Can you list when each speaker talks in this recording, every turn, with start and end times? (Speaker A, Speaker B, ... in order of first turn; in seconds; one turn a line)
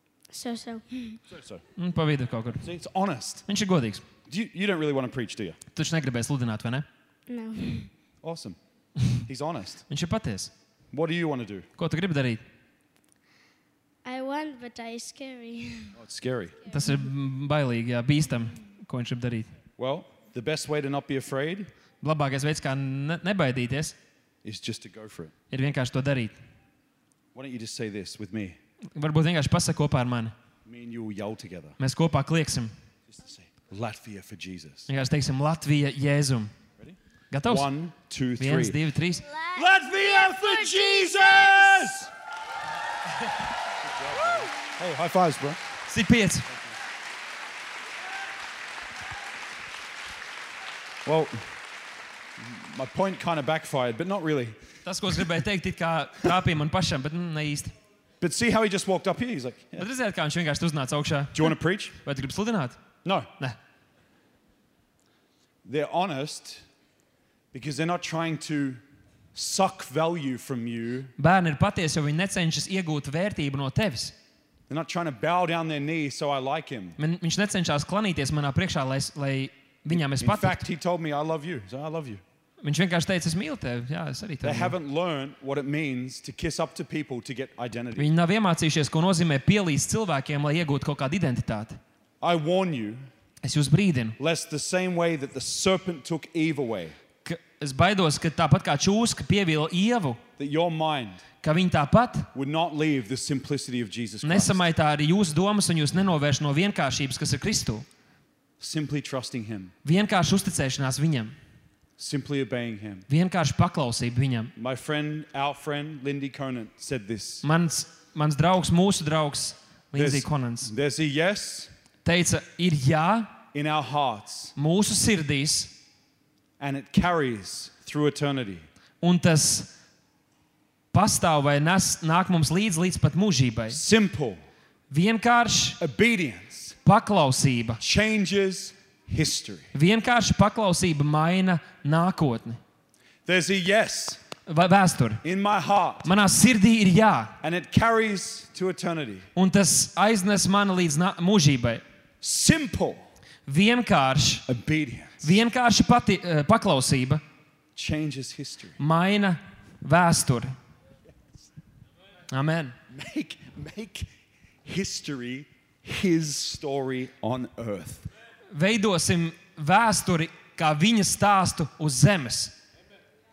Speaker A: 0.3-1.2
Speaker B: 1.3-1.6
Speaker C: 1.8-2.6
Speaker B: 2.6-3.4
Speaker C: 3.5-4.0
Speaker B: 4.3-5.6
Speaker C: 5.8-6.9
Speaker A: 7.3-7.9
Speaker B: 8.2-8.6
Speaker B: 9.3-9.8
Speaker C: 9.9-10.5
Speaker B: 10.9-11.7
Speaker C: 11.8-12.4
Speaker A: 14.1-16.0
Speaker B: 16.0-16.6
Speaker A: 16.7-17.0
Speaker C: 16.7-19.5
Speaker B: 19.8-21.7
Speaker C: 22.0-24.0
Speaker B: 24.4-25.3
Speaker C: 25.5-26.4
Speaker B: 27.3-28.6
Speaker C: 29.0-30.4
Speaker B: 30.7-31.8
Speaker C: 31.8-32.7
Speaker B: 33.1-34.9
Speaker C: 34.9-36.5
Speaker B: 36.8-38.8
Speaker C: 37.3-37.7
Speaker C: 38.4-39.3
Speaker A: 39.3-41.9
Speaker B: 39.5-42.1
Speaker B: 43.8-45.6
Speaker C: 45.9-46.5
Speaker B: 51.0-51.4
Speaker B: 52.4-54.6
Speaker C: 54.9-57.7
Speaker B: 58.2-59.9
Speaker C: 59.8-61.5
Speaker B: 61.3-62.0
Speaker C: 62.0-62.8
Speaker B: 65.7-66.6
Speaker B: 67.5-68.8
Speaker B: 69.3-71.1
Speaker C: 71.2-74.2
Speaker B: 74.7-77.0
Speaker C: 77.0-80.6
Speaker B: 80.2-82.2
Speaker C: 82.6-84.8
Speaker B: 84.4-88.1
Speaker C: 88.0-91.8
Speaker B: 92.2-93.0
Speaker C: 93.4-94.2
Speaker B: 94.2-97.0
Speaker C: 97.2-100.2
Speaker B: 100.4-101.2
Speaker C: 101.4-102.3
Speaker B: 102.3-104.7
Speaker C: 104.2-107.9
Speaker B: 108.6-109.7
Speaker C: 109.8-111.3
Speaker B: 112.0-113.1
Speaker C: 113.1-114.5
Speaker B: 114.6-117.4
Speaker C: 117.4-120.7
Speaker B: 120.0-121.7
Speaker C: 122.0-123.3
Speaker B: 123.5-124.5
Speaker C: 124.6-125.7
Speaker B: 126.6-128.7
Speaker C: 129.0-129.7
Speaker C: 130.9-133.8
Speaker B: 133.7-134.4
Speaker C: 134.9-135.8
Speaker B: 135.8-136.8
Speaker C: 136.8-137.8
Speaker B: 137.8-139.7
Speaker C: 139.7-142.6
Speaker B: 143.3-144.2
Speaker C: 144.5-145.2
Speaker B: 145.2-146.1
Speaker C: 146.0-147.3
Speaker B: 147.4-149.3
Speaker C: 149.4-151.8
Speaker B: 152.2-153.0
Speaker C: 153.5-154.5
Speaker B: 154.5-155.4
Speaker C: 155.2-157.2
Speaker B: 157.8-158.8
Speaker C: 158.8-160.5
Speaker C: 162.3-162.8
Speaker B: 162.9-164.1
Speaker B: 164.7-168.1
Speaker C: 168.5-172.6